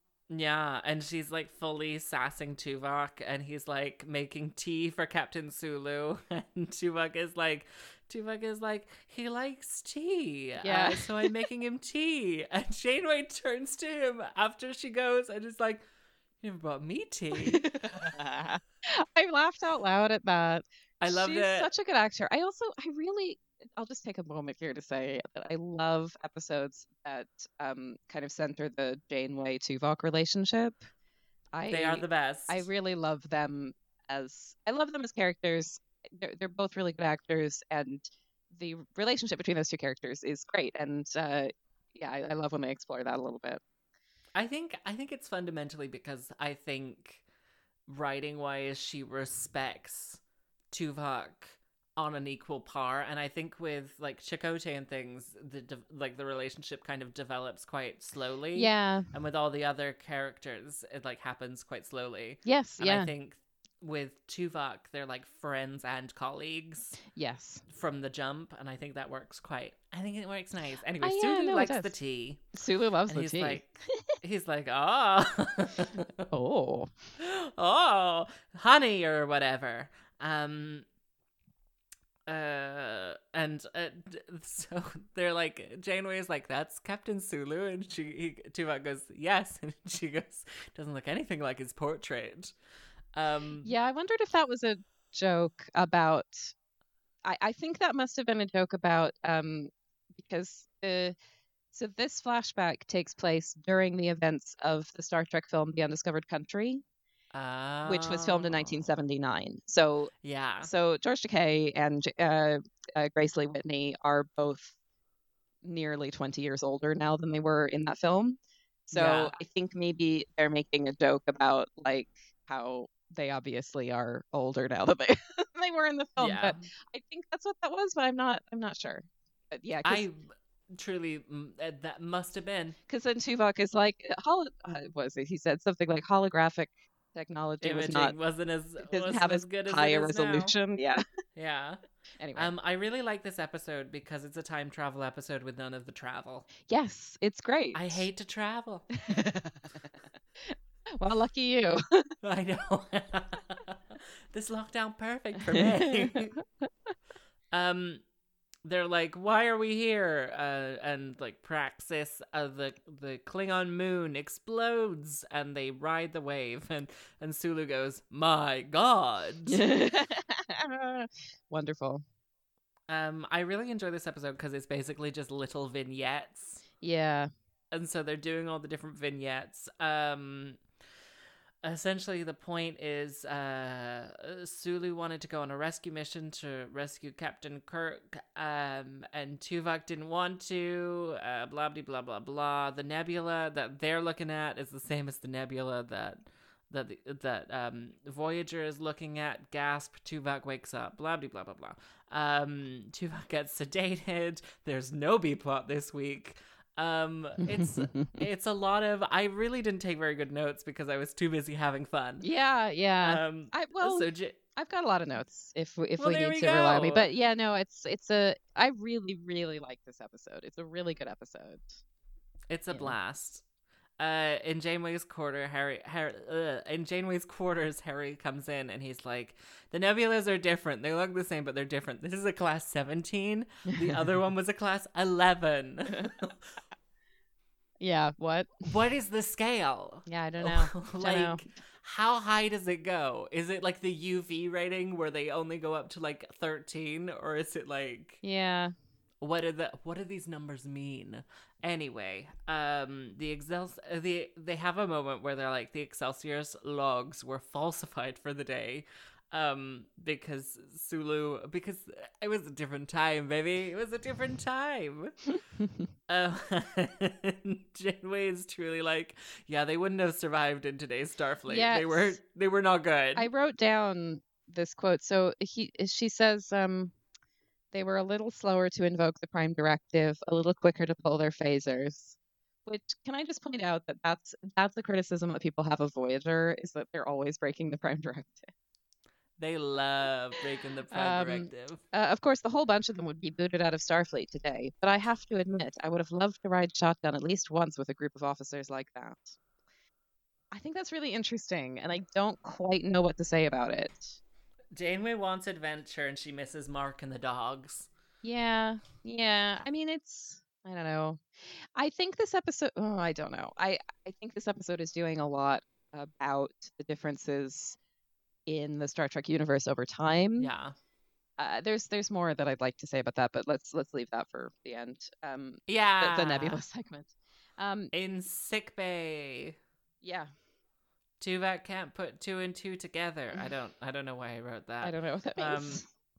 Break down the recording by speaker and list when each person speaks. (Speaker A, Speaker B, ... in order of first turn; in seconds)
Speaker A: 0.3-15.8, 16.4-18.1, 21.0-21.7, 31.7-32.7, 44.3-47.2, 47.9-67.0, 67.7-72.5, 73.1-73.7, 74.2-76.3, 77.2-80.8, 82.3-92.5, 93.1-93.7, 107.3-108.9, 110.2-110.7, 118.9-119.3, 126.2-126.7, 129.8-132.8, 137.6-140.5, 141.3-141.8, 142.3-146.5, 147.7-148.9, 152.2-156.4, 157.5-158.0, 158.6-169.6, 172.9-176.6, 177.7-180.6, 181.6-212.2, 213.0-214.4, 216.0-217.1, 222.5-223.4, 224.0-236.5, 238.7-248.2, 249.2-265.2, 266.1-273.3, 289.4-291.8, 304.7-307.9, 320.4-320.7, 325.7-326.6, 327.9-329.5, 331.2-335.8
Speaker B: 10.6-11.3, 17.4-30.8, 31.5-43.6, 58.5-59.1, 62.4-63.1, 67.1-67.6, 71.0-71.9, 72.5-73.8, 76.3-76.9, 93.6-96.5, 97.2-101.1, 101.7-106.8, 107.8-114.8, 115.6-130.1, 132.9-138.2, 138.8-141.0, 142.2-142.5, 146.6-148.0, 149.0-152.1, 155.5-156.4, 169.5-172.0, 176.8-177.3, 207.4-208.2, 212.2-221.8, 233.7-234.0, 237.8-238.6, 240.1-241.4, 248.2-248.7, 271.5-272.2, 273.1-276.9, 277.7-288.5, 290.9-299.4, 300.5-304.2, 308.2-317.8, 318.5-320.5, 321.4-327.9, 330.0-330.3, 334.8-335.8